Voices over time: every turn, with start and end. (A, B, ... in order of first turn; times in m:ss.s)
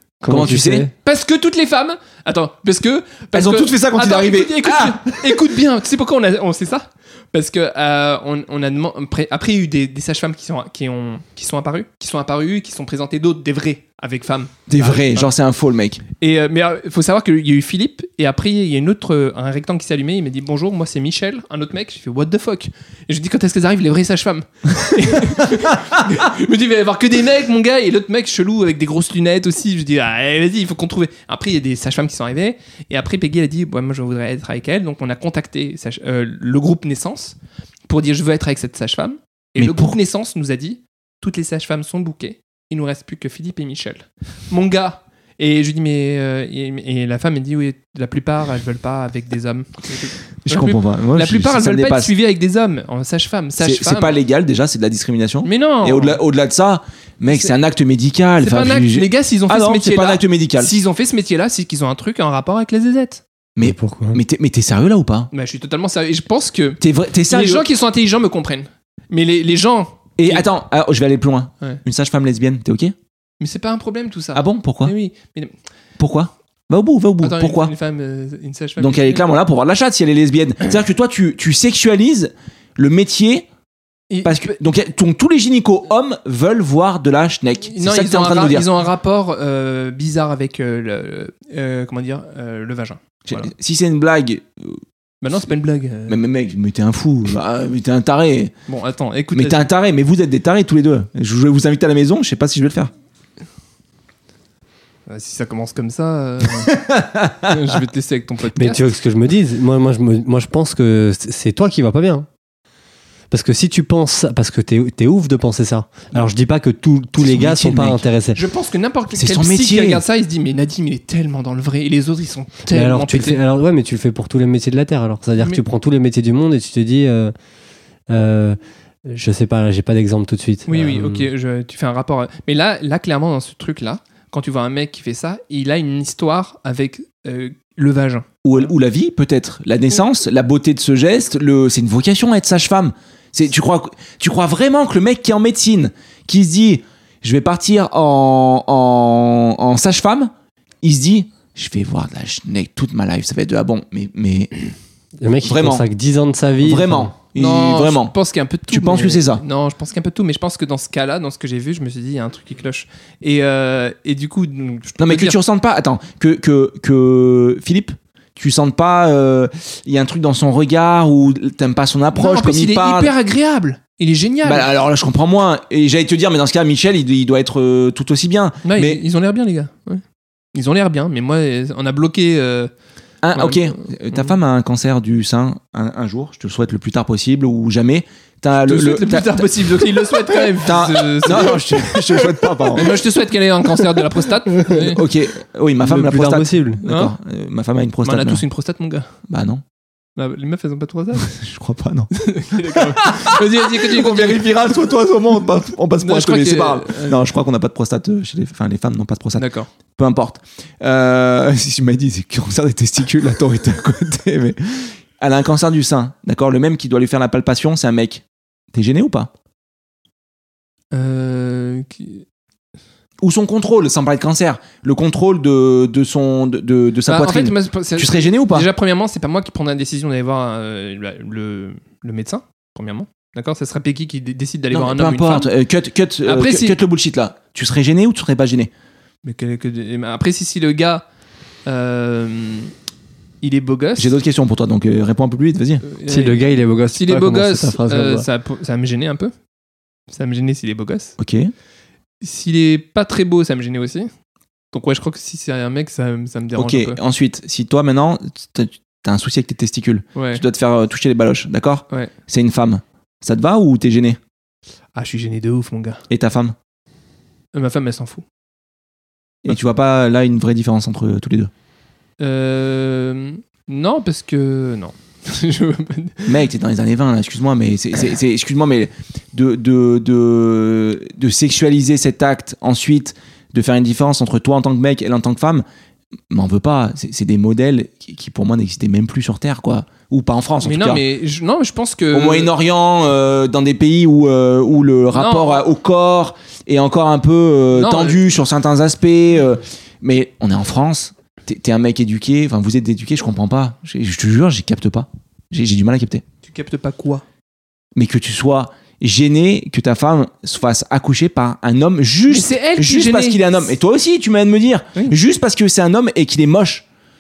0:00.2-0:00.9 A
0:00.3-0:00.9 B
0:01.0-0:15.3 C
0:03.3-0:05.4 B
0:14.7-0:16.0 B
0:16.2-0:37.4 C
0:37.9-0:54.2 C
0:39.6-0:40.0 B
0:50.5-0:52.1 B
0:53.6-1:00.7 B
0:55.4-0:56.2 C
0:58.4-1:03.2 C
1:03.6-1:05.3 B
1:03.6-1:04.2 A
1:05.3-1:10.5 C
1:06.8-1:07.6 B
1:10.2-1:12.9 B
1:13.4-1:15.5 C
1:14.3-1:14.9 B
1:16.0-1:17.7 B
1:17.2-1:19.2 C
1:18.8-1:23.5 B
1:24.1-1:24.5 C
1:24.2-1:28.7 B
1:27.7-1:33.5 C
1:33.3-1:34.8 B
1:35.2-1:36.2 C
1:36.1-1:38.5 B
1:38.7-1:39.7 C
1:39.3-1:42.9 B
1:45.1-1:46.8 C
1:46.7-1:47.6 B
1:47.4-1:48.9 C
1:48.6-1:52.3 A
1:53.3-1:58.4 A
1:57.2-1:58.0 B
1:58.4-2:03.4 C
1:59.2-2:00.0 B
2:02.7-2:07.3 A
2:08.1-2:11.3 A
2:10.7-2:18.7 C
2:18.4-2:30.3 B
2:30.8-2:34.5 B
2:35.2-2:37.1 A
2:35.4-2:35.9 B
2:36.6-2:38.2 B
2:37.4-2:45.4 C
2:38.7-2:39.4 B
2:45.0-2:53.1 B
2:52.1-2:54.7 C
2:54.4-2:59.0 B
2:58.6-3:00.0 C
3:00.5-3:02.7 C
3:03.2-3:09.5 B
3:03.3-3:04.3 C
3:08.6-3:15.0 C
3:10.6-3:13.0 B
3:14.7-3:18.4 B
3:15.8-3:16.8 A
3:16.8-3:17.1 C
3:18.0-3:19.1 C
3:19.3-3:19.6 B
3:20.2-3:21.4 C
3:21.4-3:22.1 B
3:22.1-3:24.5 C
3:22.7-3:39.3 B
3:26.0-3:27.2 C
3:29.4-3:29.7 C
3:40.9-3:42.2 C
3:43.2-3:48.7 B
3:47.1-3:55.5 C
3:54.7-3:58.7 B
3:56.2-3:56.8 C
3:59.2-4:01.0 C
4:01.7-4:02.7 C
4:03.4-4:04.2 C
4:04.0-4:05.8 B
4:05.8-4:09.3 C
4:06.1-4:08.3 A
4:10.1-4:11.2 C
4:11.2-4:11.5 B
4:12.2-4:14.1 C
4:14.7-4:17.0 C
4:16.6-4:24.2 B
4:20.2-4:20.4 C
4:25.0-4:26.0 C
4:26.1-4:26.6 B
4:27.5-4:28.2 C
4:29.4-4:31.5 B
4:32.2-4:36.4 C
4:36.3-4:45.6 B
4:46.3-4:51.0 B
4:50.6-4:52.5 C
4:52.1-5:06.2 B
4:55.2-4:55.6 C
4:57.7-4:58.2 C
5:06.4-5:07.2 C
5:08.0-5:16.8 B
5:12.3-5:13.7 C